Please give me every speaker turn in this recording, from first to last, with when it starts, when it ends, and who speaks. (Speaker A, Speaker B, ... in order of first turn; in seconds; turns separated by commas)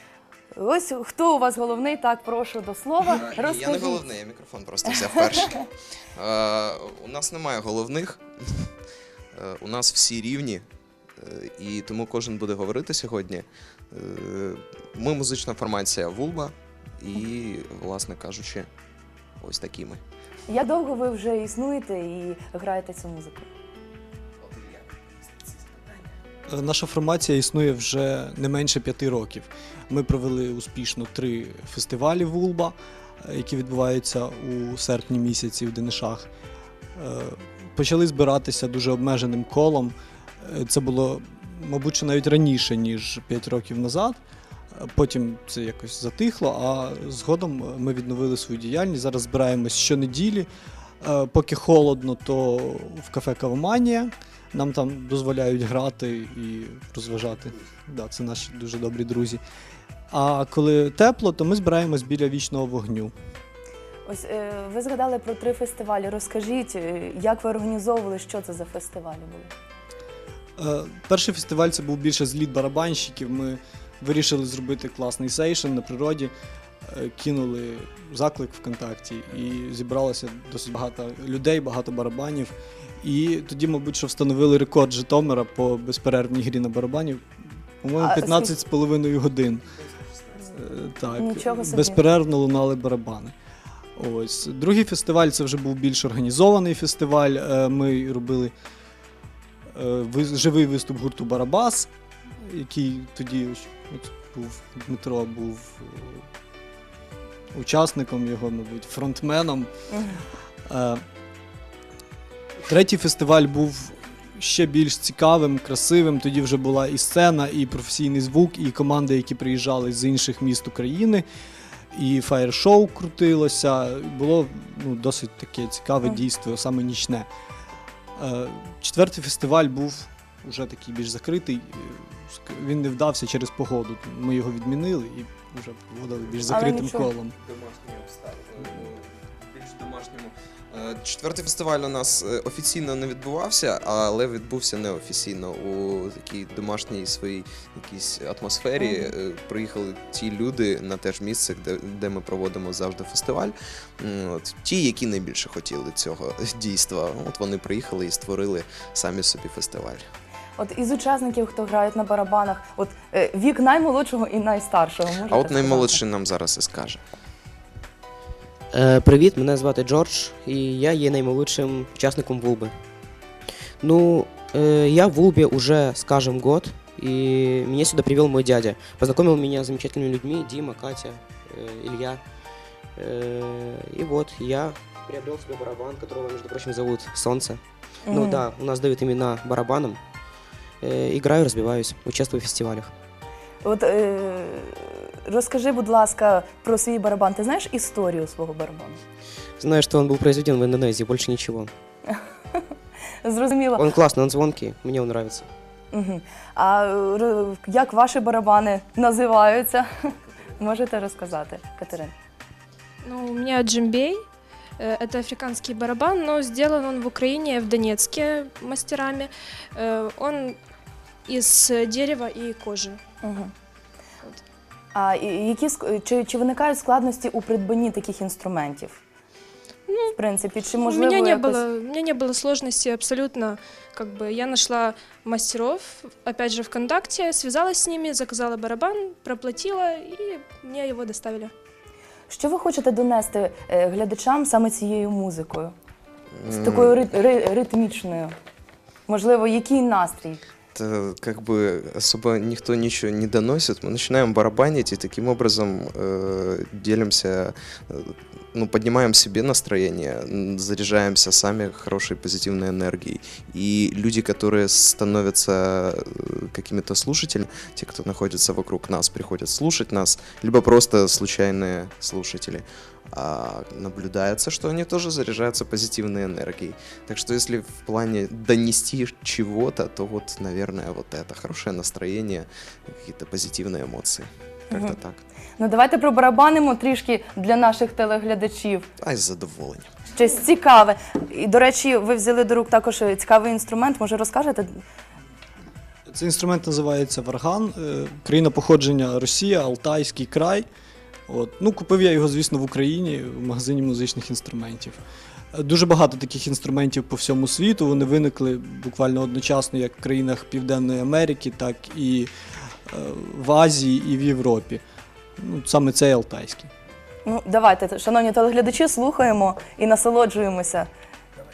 Speaker A: 0.5-4.0, Speaker B: 3.1-5.6, Speaker A: 5.0-5.6, Speaker B: 6.1-8.7, Speaker B: 9.3-18.7, Speaker B: 19.4-20.0, Speaker A: 20.5-23.5, Speaker B: 24.4-26.1, Speaker C: 26.5-36.3, Speaker C: 37.0-44.2, Speaker C: 44.7-50.5, Speaker C: 51.0-59.4, Speaker C: 60.1-63.1, Speaker A: 64.0-69.5, Speaker C: 70.6-76.3, Speaker C: 76.8-89.7, Speaker A: 88.0-88.5, Speaker C: 90.4-93.3, Speaker A: 91.2-92.0, Speaker C: 94.0-98.5, Speaker C: 99.7-106.2, Speaker C: 107.5-109.7, Speaker A: 109.9-110.2, Speaker C: 110.7-111.0, Speaker C: 112.7-121.2, Speaker C: 121.9-127.3, Speaker C: 128.2-137.3, Speaker B: 136.3-160.1, Speaker A: 136.5-137.1, Speaker A: 148.8-149.1, Speaker A: 160.6-166.0, Speaker B: 165.3-167.0, Speaker D: 168.7-172.8, Speaker D: 173.8-190.0, Speaker A: 188.1-188.4, Speaker D: 190.8-192.9, Speaker A: 193.6-199.0, Speaker D: 199.6-201.7, Speaker A: 202.1-202.6, Speaker A: 203.2-203.8, Speaker D: 203.8-205.5, Speaker A: 205.9-212.1, Speaker E: 213.0-214.2, Speaker E: 214.8-220.6, Speaker E: 221.3-223.0, Speaker A: 223.2-223.5, Speaker A: 224.9-229.0, Speaker E: 229.9-230.2, Speaker A: 230.2-231.6, Speaker E: 230.8-241.5, Speaker A: 242.3-245.7, Speaker B: 246.3-247.1, Speaker A: 246.5-248.3, Speaker A: 249.1-250.4, Speaker B: 250.7-285.2, Speaker A: 284.7-284.9, Speaker A: 285.6-288.9, Speaker B: 289.0-289.9, Speaker A: 290.1-294.8, Speaker C: 296.1-300.6, Speaker C: 301.3-305.0, Speaker C: 305.5-312.3, Speaker C: 312.9-314.8, Speaker C: 315.4-316.7, Speaker A: 317.2-320.9